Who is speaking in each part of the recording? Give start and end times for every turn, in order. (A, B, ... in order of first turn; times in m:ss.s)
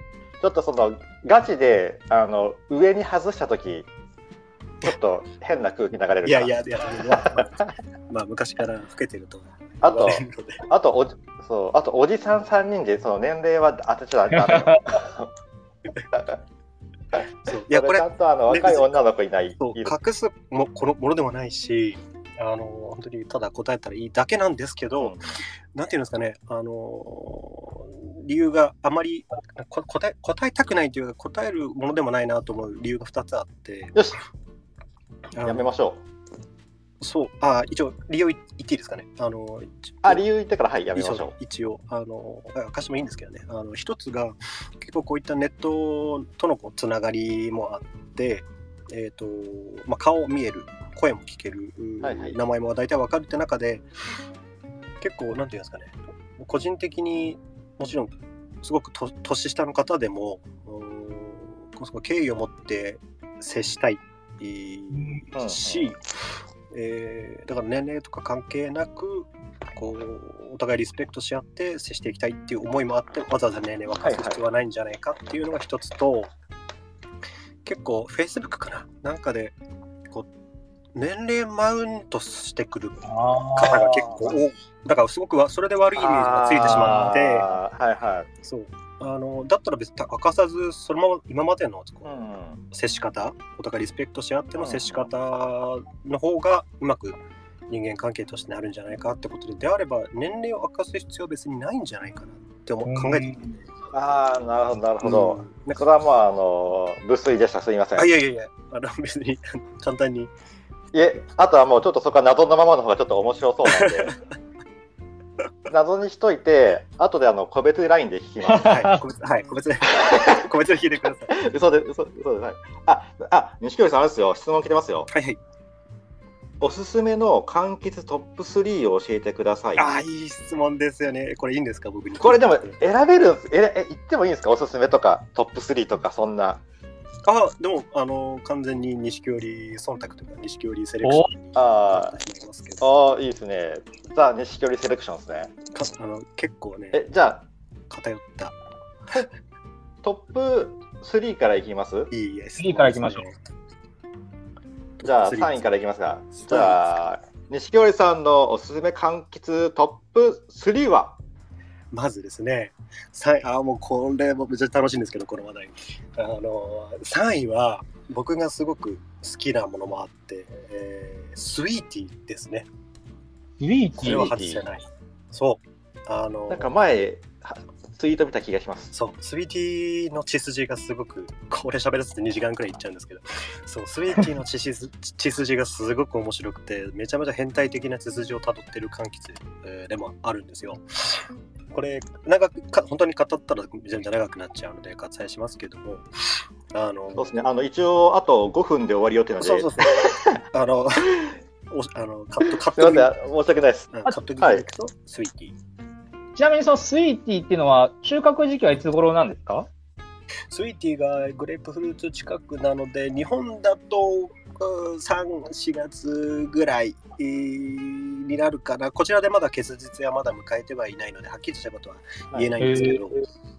0:00.4-0:03.9 A
0:04.8-0:07.5 A
0:06.2-0:10.6 B
0:09.8-0:15.3 A
0:14.3-0:14.8 C
0:16.1-0:16.4 A
0:17.4-0:18.9 B
0:17.5-0:19.9 A
0:19.6-0:25.2 B
0:25.0-0:25.4 A
0:25.7-0:34.0 B
0:35.3-0:35.6 B
0:35.4-0:36.0 A
0:37.0-0:40.2 B
0:40.0-0:41.3 A
0:40.9-0:53.8 B
0:52.0-0:52.4 A
0:55.0-1:06.0 B
1:04.9-1:05.2 C
1:05.3-1:05.9 A
1:06.7-1:16.3 B
1:14.0-1:14.4 A
1:17.6-1:19.6 B
1:20.9-1:27.5 B
1:23.0-1:24.2 C
1:26.0-1:28.3 A
1:26.6-1:27.1 C
1:28.4-1:43.4 B
1:32.0-1:32.6 A
1:34.6-1:35.1 A
1:42.9-1:43.5 C
1:43.9-1:48.1 A
1:45.0-1:45.8 B
1:48.0-1:50.3 B
1:50.9-1:54.1 A
1:53.7-1:54.2 B
1:55.7-1:58.8 A
1:58.5-1:58.9 C
1:58.6-2:01.4 B
1:59.9-2:00.4 A
2:01.3-2:05.1 A
2:05.1-2:05.4 B
2:06.6-2:09.9 A
2:09.8-2:12.8 B
2:12.2-2:16.6 A
2:17.2-2:22.9 B
2:21.0-2:21.3 C
2:21.5-2:22.2 A
2:22.8-2:25.5 A
2:25.7-2:27.0 B
2:26.9-2:27.4 A
2:27.9-2:28.5 B
2:30.0-2:32.1 A
2:32.1-2:33.4 B
2:32.6-2:33.2 C
2:35.0-2:35.7 B
2:35.0-2:41.2 A
2:36.3-2:36.9 B
2:41.9-2:52.7 B
2:53.6-2:54.3 C
2:54.0-2:56.7 B
2:54.0-2:54.6 A
2:56.5-2:58.9 A
2:58.9-3:17.3 B
3:17.2-3:20.4 A
3:19.4-3:23.1 B
3:22.6-3:24.6 A
3:23.9-3:25.6 B
3:26.4-3:29.7 C
3:30.5-3:43.2 B
3:42.6-3:43.2 C